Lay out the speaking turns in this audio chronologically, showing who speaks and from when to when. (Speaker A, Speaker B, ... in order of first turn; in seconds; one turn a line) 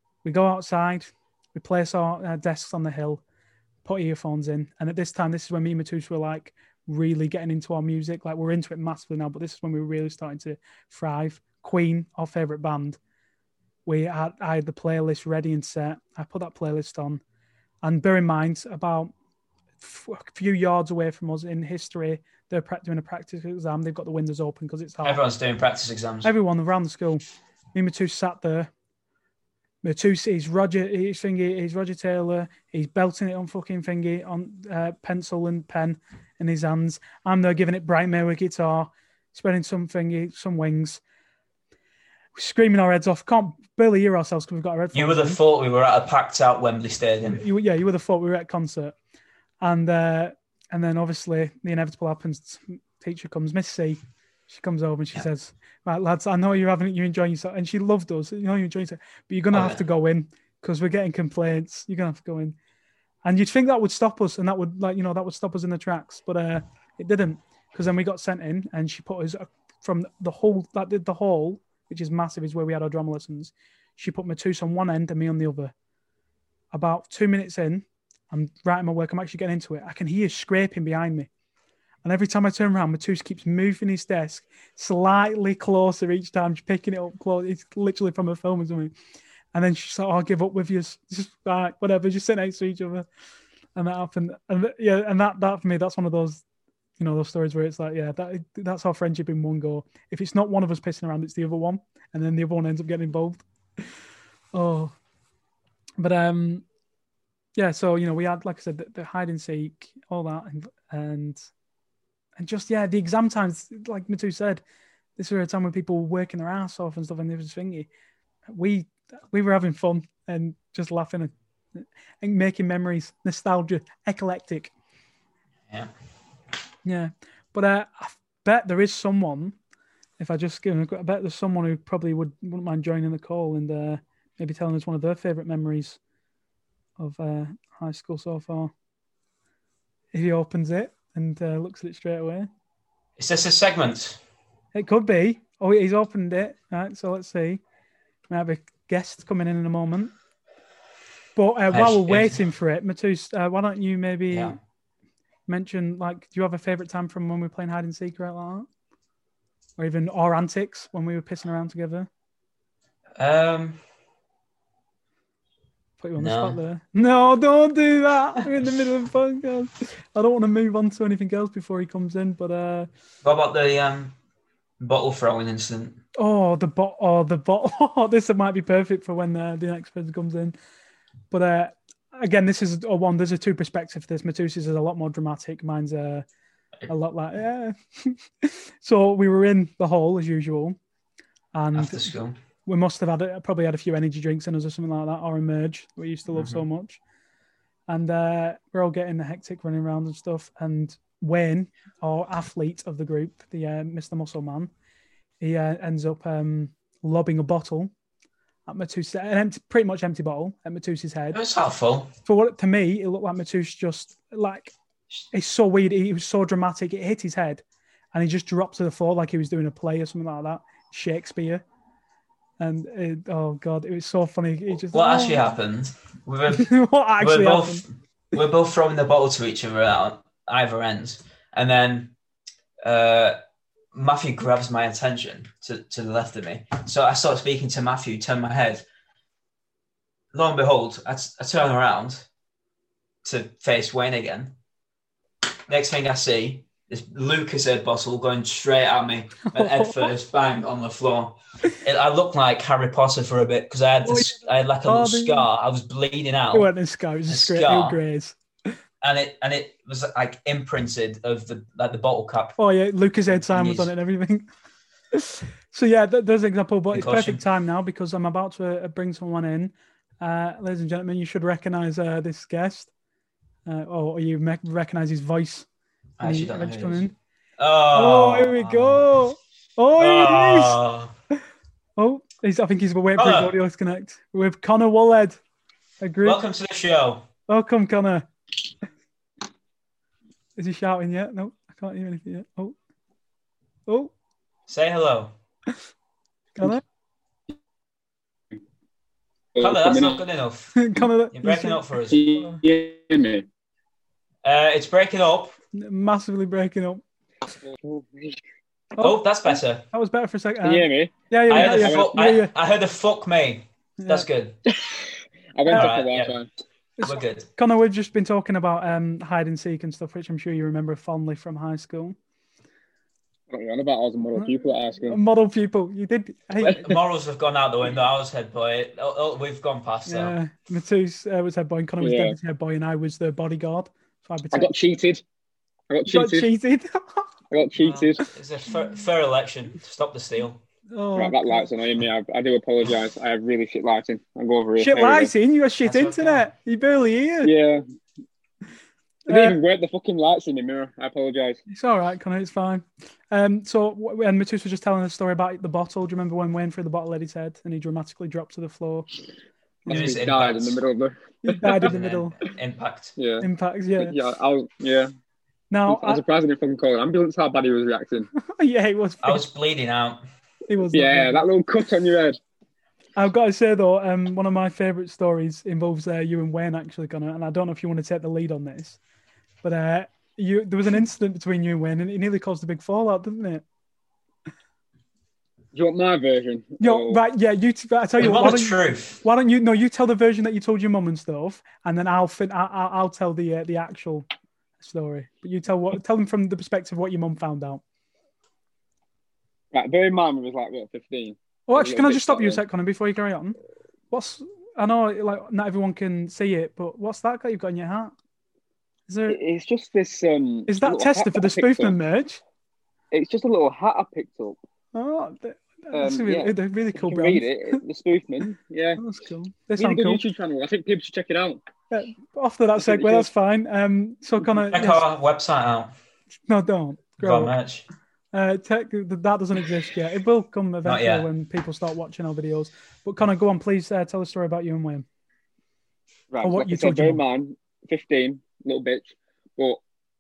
Speaker A: 0.2-3.2
Speaker A: 3.8-13.0
Speaker A: 13.9-17.2
Speaker A: 17.8-19.1
Speaker A: 19.8-25.2
Speaker B: 25.0-26.3
Speaker A: 26.2-27.2
Speaker A: 27.7-28.7
Speaker A: 29.8-41.0
Speaker A: 42.4-45.4
Speaker B: 44.9-47.4
Speaker A: 47.3-49.0
Speaker A: 49.6-62.6
Speaker B: 59.5-59.8
Speaker A: 63.2-75.7
Speaker A: 76.7-81.3
Speaker A: 82.0-88.9
Speaker A: 89.5-93.1
Speaker A: 93.8-96.4
Speaker A: 97.0-103.5
Speaker A: 104.5-105.0
Speaker A: 106.0-106.7
Speaker A: 107.6-111.5
Speaker A: 112.4-114.6
Speaker A: 115.2-117.9
Speaker A: 118.5-124.7
Speaker A: 126.8-129.6
Speaker A: 130.2-136.0
Speaker A: 137.0-138.7
Speaker A: 140.1-142.5
Speaker B: 143.2-144.2
Speaker A: 144.7-147.6
Speaker A: 148.3-150.1
Speaker A: 151.3-154.6
Speaker B: 151.7-152.4
Speaker B: 154.3-154.6
Speaker A: 155.5-158.7
Speaker A: 159.8-162.1
Speaker B: 163.2-163.8
Speaker A: 166.0-172.9
Speaker B: 166.2-166.6
Speaker B: 173.2-174.2
Speaker B: 174.8-176.0
Speaker A: 176.2-180.6
Speaker A: 181.3-186.3
Speaker A: 186.9-190.8
Speaker A: 191.5-192.1
Speaker B: 191.8-192.4
Speaker A: 192.7-197.0
Speaker B: 196.3-196.6
Speaker A: 197.9-204.7
Speaker A: 205.4-207.9
Speaker A: 208.7-211.4
Speaker B: 211.3-212.1
Speaker A: 212.2-214.7
Speaker A: 215.3-221.7
Speaker A: 222.6-225.4
Speaker B: 224.9-232.2
Speaker A: 226.5-227.8
Speaker B: 232.8-233.4
Speaker B: 233.9-238.8
Speaker B: 240.3-242.3
Speaker B: 243.2-244.6
Speaker B: 245.7-256.7
Speaker A: 249.4-250.1
Speaker A: 254.1-255.5
Speaker A: 256.5-258.4
Speaker B: 257.3-258.0
Speaker B: 259.0-262.6
Speaker A: 262.6-264.5
Speaker B: 263.5-263.9
Speaker A: 265.1-272.9
Speaker B: 266.9-267.4
Speaker A: 273.7-275.7
Speaker B: 276.2-277.1
Speaker A: 276.2-277.1
Speaker B: 277.6-279.1
Speaker A: 277.9-280.8
Speaker B: 280.0-281.1
Speaker A: 282.0-285.4
Speaker B: 283.2-283.6
Speaker A: 286.0-286.4
Speaker B: 286.2-287.3
Speaker A: 287.5-288.3
Speaker A: 290.6-292.8
Speaker A: 293.9-294.1
Speaker B: 294.7-295.4
Speaker A: 296.6-296.8
Speaker C: 299.6-300.2
Speaker B: 299.6-302.2
Speaker A: 300.8-302.6
Speaker C: 302.1-303.5
Speaker B: 304.4-305.6
Speaker A: 305.7-307.0
Speaker C: 307.6-308.4
Speaker A: 309.0-312.5
Speaker B: 309.0-309.9
Speaker C: 310.6-312.1
Speaker B: 311.5-314.6
Speaker A: 314.0-314.3
Speaker C: 314.7-316.5
Speaker A: 315.7-315.9
Speaker B: 315.7-316.4
Speaker A: 317.0-322.2
Speaker B: 317.0-317.5
Speaker C: 323.5-325.2
Speaker A: 325.1-327.0
Speaker B: 326.6-330.4
Speaker A: 330.1-334.7
Speaker C: 332.0-332.4
Speaker C: 334.5-335.2
Speaker C: 335.9-336.5
Speaker A: 336.1-337.3
Speaker C: 337.5-338.2
Speaker B: 337.8-340.6
Speaker A: 340.9-341.7
Speaker C: 341.2-345.3
Speaker A: 344.8-347.5
Speaker B: 345.8-346.5
Speaker C: 347.4-347.8
Speaker A: 349.3-349.6
Speaker C: 349.3-351.6
Speaker A: 351.7-359.1
Speaker A: 359.9-360.2
Speaker C: 359.9-361.9
Speaker B: 359.9-360.8
Speaker A: 361.4-362.4
Speaker B: 361.9-363.2
Speaker C: 363.2-363.5
Speaker A: 363.4-364.2
Speaker C: 364.0-365.1
Speaker A: 365.7-366.2
Speaker C: 365.9-368.3
Speaker A: 368.4-369.4
Speaker B: 369.2-370.2
Speaker A: 370.7-371.4
Speaker C: 370.9-372.4
Speaker A: 373.2-379.0
Speaker A: 379.6-383.6
Speaker C: 385.7-387.2
Speaker A: 386.8-394.3
Speaker B: 388.2-389.2
Speaker A: 394.8-397.8
Speaker C: 399.7-402.6
Speaker A: 401.7-403.6
Speaker A: 404.1-408.1
Speaker A: 409.1-409.4
Speaker C: 409.3-412.0
Speaker A: 410.7-412.4
Speaker C: 413.1-414.6
Speaker A: 414.9-417.5
Speaker C: 415.9-419.0
Speaker A: 419.0-420.2
Speaker C: 419.8-421.6
Speaker A: 421.9-425.0
Speaker C: 422.9-423.3
Speaker B: 424.7-425.9
Speaker A: 426.5-427.6
Speaker B: 427.2-427.9
Speaker A: 428.3-435.1
Speaker B: 430.9-431.3
Speaker C: 436.3-439.8
Speaker A: 436.4-437.2